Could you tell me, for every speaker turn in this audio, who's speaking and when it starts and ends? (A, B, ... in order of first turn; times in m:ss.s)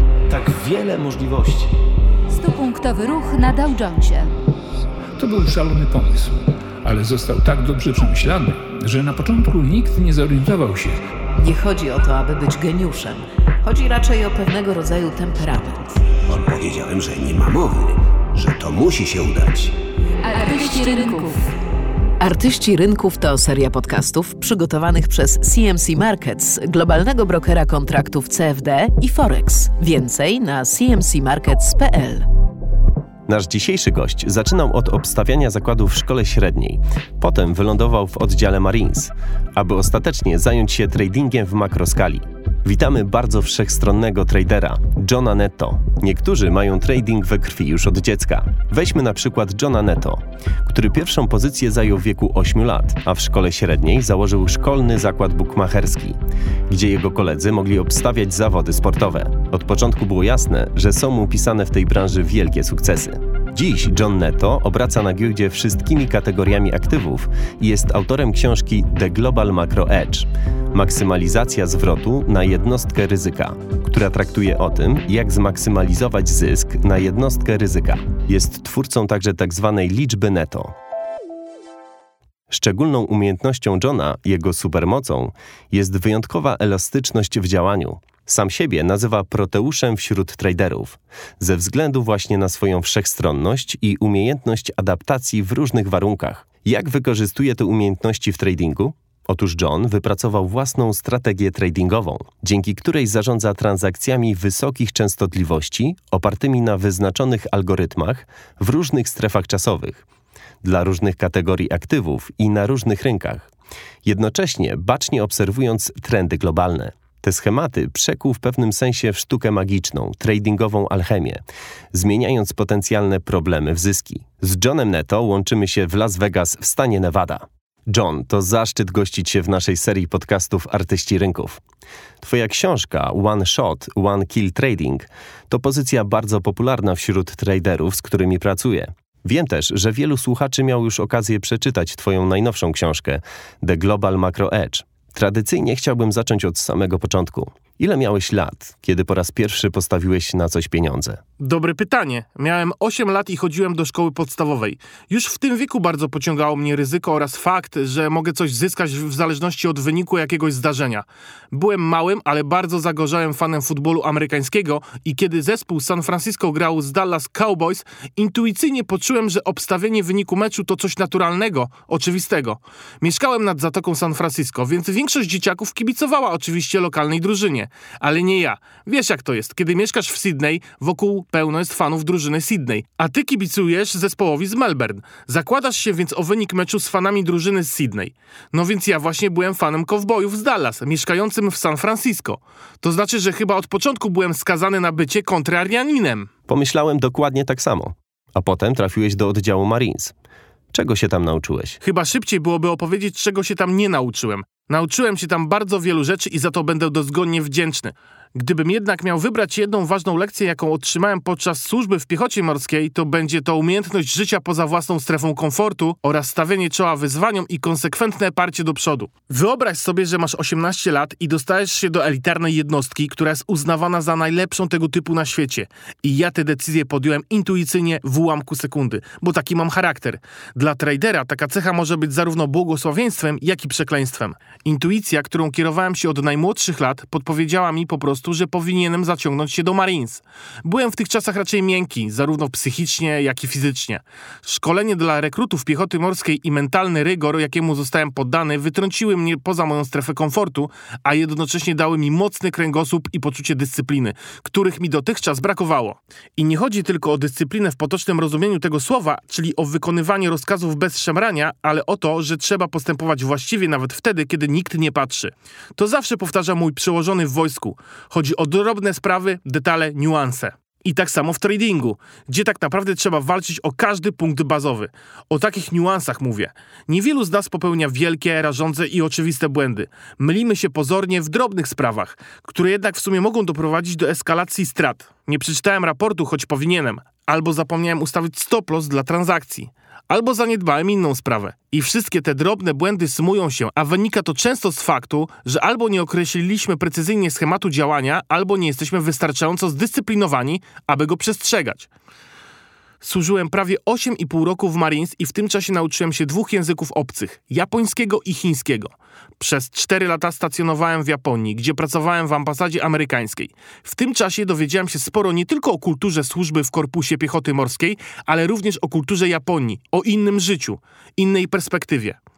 0:00.3-0:01.7 A
0:00.4-0:01.0 B
0:02.3-0:04.3 C
0:05.2-0:11.0 D
0:11.4-0:16.0 E
0:16.3-0:19.7 B
0:20.2-0:21.4 C
0:22.2-0:32.2 E
0:33.3-0:56.2 A
0:56.7-1:20.7 A
1:22.5-1:50.0 A
1:50.6-1:53.5 A
1:54.0-2:01.4 A
2:01.9-2:11.6 A
2:12.2-2:31.2 A
2:31.4-3:16.3 F
3:16.5-3:20.1 A
3:20.7-3:21.8 A
3:21.8-5:01.9 F
5:03.0-5:22.2 F